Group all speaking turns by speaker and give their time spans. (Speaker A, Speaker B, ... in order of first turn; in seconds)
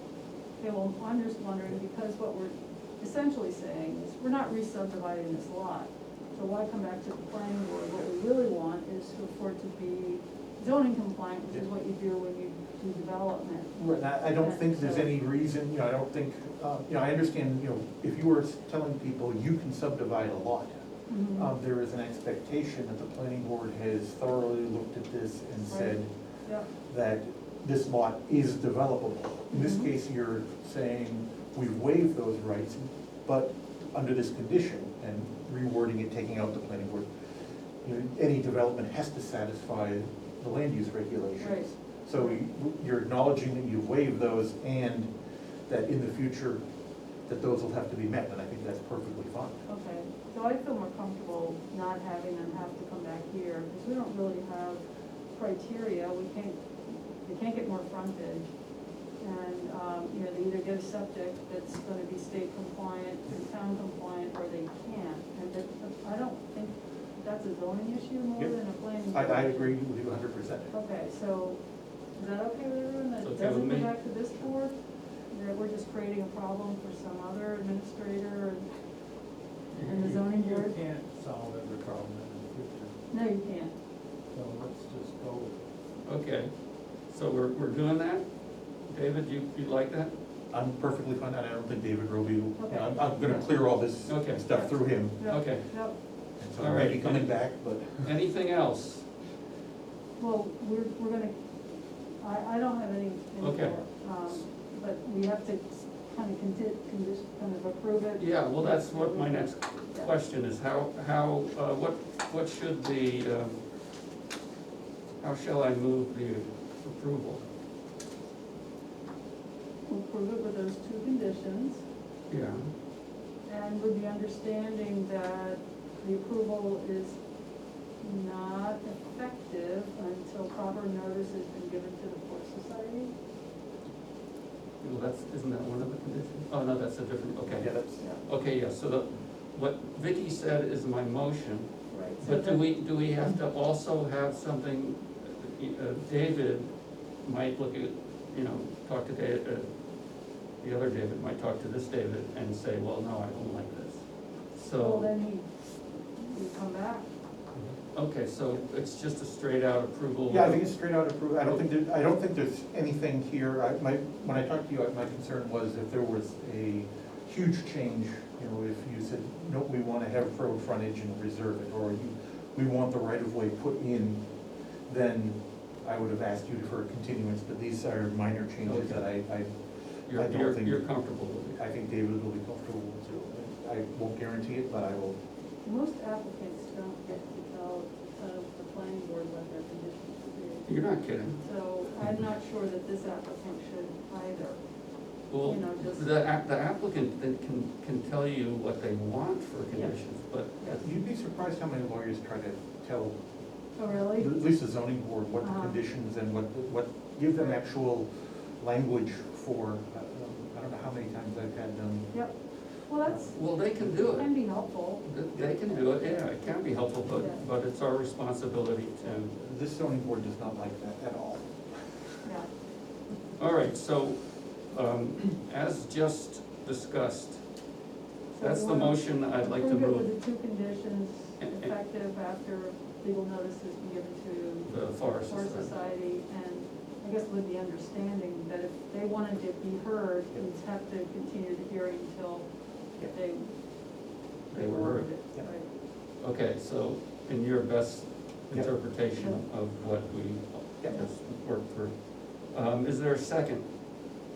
Speaker A: 0.6-15.1, 21.1-21.5, 25.7-26.7, 29.5-29.9, 41.4-42.4, 49.7-58.5, 59.2-69.8, 70.7-71.6, 72.2-74.8, 75.3-78.7, 79.8-80.8, 83.1-83.7, 92.6-93.1, 95.2-96.0, 100.2-101.4, 102.2-110.1, 119.9-121.8, 123.5-127.2, 128.0-133.1, 141.9-142.6, 154.8-157.1, 185.7-190.8, 191.4-194.6, 195.4-196.1, 199.7-200.8, 203.8-204.4, 205.4-205.8, 212.9-215.2, 215.9-216.3, 217.1-217.4, 222.2-222.5, 228.3-245.7, 249.2-249.4
Speaker B: 13.8-26.1, 26.7-37.1, 37.8-45.1, 45.7-46.6, 47.2-49.6, 68.4-70.8, 90.5-95.5, 96.4-98.1, 137.5-138.1, 160.3-174.3, 174.9-180.9, 181.6-185.2, 200.8-203.2, 204.0-212.2, 219.3-222.3
Speaker C: 73.2-74.0, 86.0-88.2, 88.8-90.1, 94.1-95.7, 96.6-99.0, 103.4-103.8, 108.2-113.6, 115.2-117.4, 122.3-122.7, 134.8-149.7, 150.6-155.1, 157.9-161.6, 178.6-179.1, 180.1-181.6, 190.7-191.4, 195.3-200.8, 213.3-219.3, 223.4-227.4, 228.4-230.1, 231.4-231.7, 234.7-235.7, 244.5-245.7, 246.2-253.7
Speaker D: 79.7-83.0, 84.3-85.7